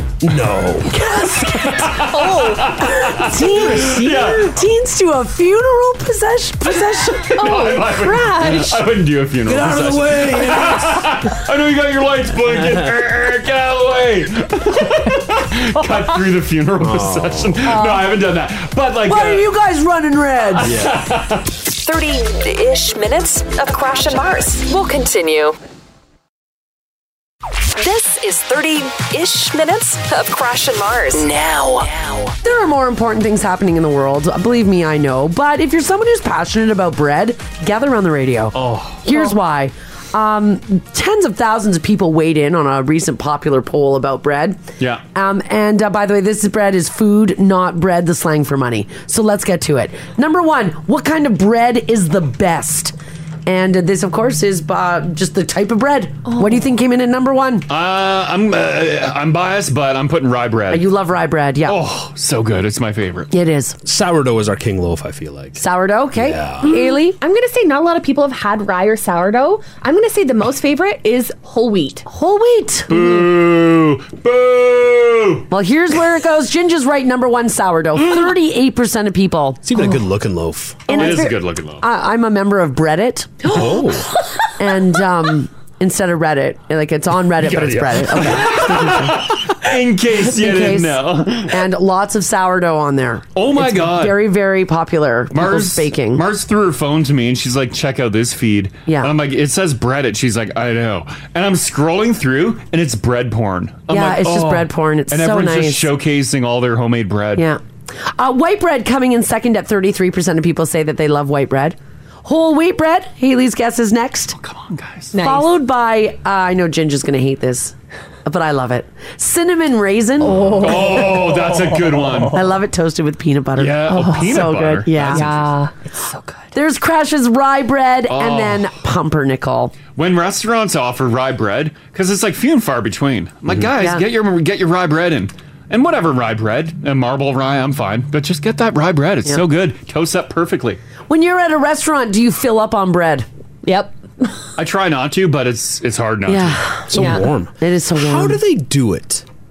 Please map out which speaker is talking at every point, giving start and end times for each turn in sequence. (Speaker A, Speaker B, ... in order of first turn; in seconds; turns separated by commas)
Speaker A: 0.2-0.9, Speaker B: 0.9-2.0, Speaker C: 1.4-4.5, Speaker D: 2.1-2.8, Speaker B: 2.7-7.4, Speaker A: 3.3-4.2, Speaker C: 7.2-19.5, Speaker D: 7.3-8.8, Speaker A: 9.4-11.3, Speaker A: 12.4-12.9, Speaker A: 16.8-17.6, Speaker D: 17.7-18.1, Speaker B: 19.1-20.7, Speaker A: 20.6-21.1, Speaker C: 20.6-21.5, Speaker E: 21.7-25.6, Speaker E: 27.8-32.3, Speaker B: 32.4-44.6, Speaker C: 38.5-39.0, Speaker B: 45.1-53.0, Speaker B: 53.5-57.7, Speaker C: 57.7-60.9, Speaker B: 60.7-61.8, Speaker C: 61.7-63.3, Speaker B: 63.3-63.8, Speaker A: 63.8-65.6, Speaker B: 65.6-67.2, Speaker A: 66.1-66.7, Speaker D: 66.6-72.0, Speaker B: 72.1-72.9, Speaker C: 72.9-75.5, Speaker B: 75.5-79.6, Speaker A: 79.6-80.9, Speaker B: 80.9-83.6, Speaker C: 80.9-81.8, Speaker A: 83.5-84.1, Speaker B: 84.6-89.2, Speaker A: 87.4-89.0, Speaker C: 88.2-91.6, Speaker B: 90.3-96.2, Speaker C: 93.4-94.2, Speaker C: 95.3-107.5, Speaker B: 98.9-99.1, Speaker B: 103.9-105.9, Speaker B: 107.4-114.3, Speaker C: 114.4-115.1, Speaker D: 115.1-115.5, Speaker B: 115.2-120.6, Speaker D: 120.2-122.5, Speaker C: 120.6-122.4, Speaker B: 122.3-125.3, Speaker C: 123.6-125.4, Speaker D: 123.9-124.4, Speaker D: 125.1-126.4, Speaker B: 126.5-129.7, Speaker C: 128.1-128.7, Speaker C: 130.0-140.8, Speaker B: 133.8-134.0, Speaker B: 141.1-143.2, Speaker D: 143.7-144.4, Speaker C: 144.6-146.7, Speaker B: 146.3-148.4, Speaker A: 146.9-149.2, Speaker D: 146.9-147.2